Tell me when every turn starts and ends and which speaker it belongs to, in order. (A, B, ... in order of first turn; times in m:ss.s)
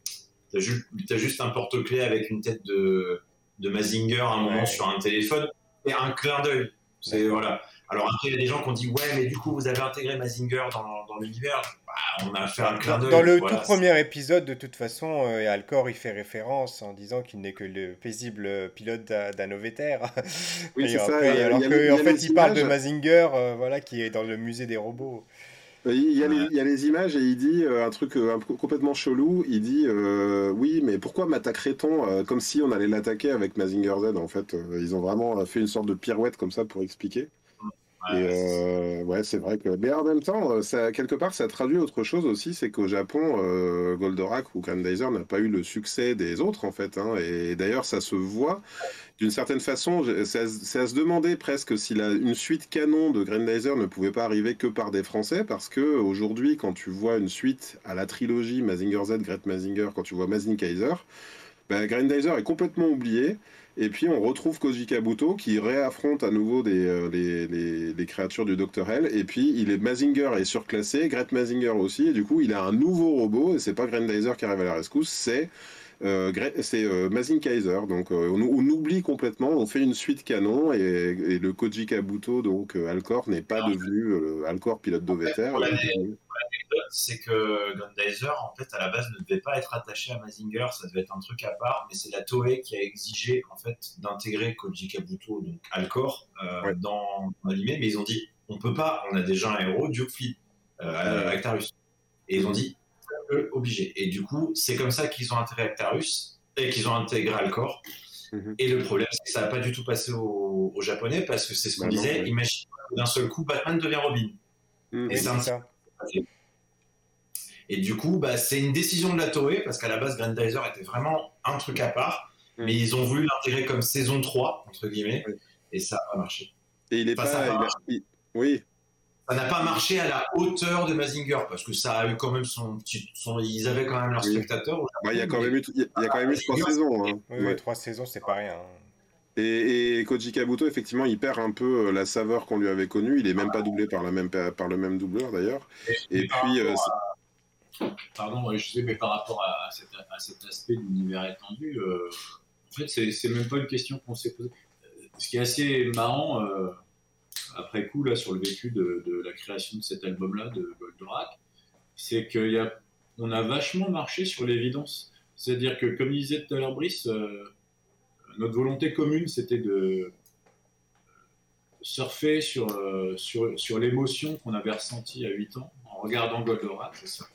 0:00.5-0:13.8 A
0:04.4-0:04.8 B
0:07.1-0:07.4 B
0:12.7-0:25.3 B
0:20.8-0:22.7 C
0:25.8-0:37.3 C
0:37.6-0:38.6 A
0:38.1-0:48.6 C
0:49.2-1:01.0 C
1:01.7-1:15.5 C
1:16.0-1:26.2 C
1:25.2-1:41.7 A
1:41.0-1:41.4 C
1:42.3-1:47.8 A
1:48.6-1:54.4 A
1:51.8-1:52.3 C
1:54.9-1:55.3 C
1:55.1-1:55.7 B
1:55.1-1:56.2 A
1:57.7-2:06.5 A
2:06.9-2:08.6 C
2:07.2-2:07.7 A
2:09.3-2:16.8 A
2:14.2-2:14.5 C
2:15.0-2:17.6 C
2:17.3-2:18.8 B
2:19.4-2:26.9 C
2:25.9-2:26.8 D
2:28.1-2:36.8 D
2:37.5-2:41.4 D
2:42.0-2:47.5 D
2:48.3-2:50.1 D
2:51.8-2:57.0 D
2:57.0-2:57.2 A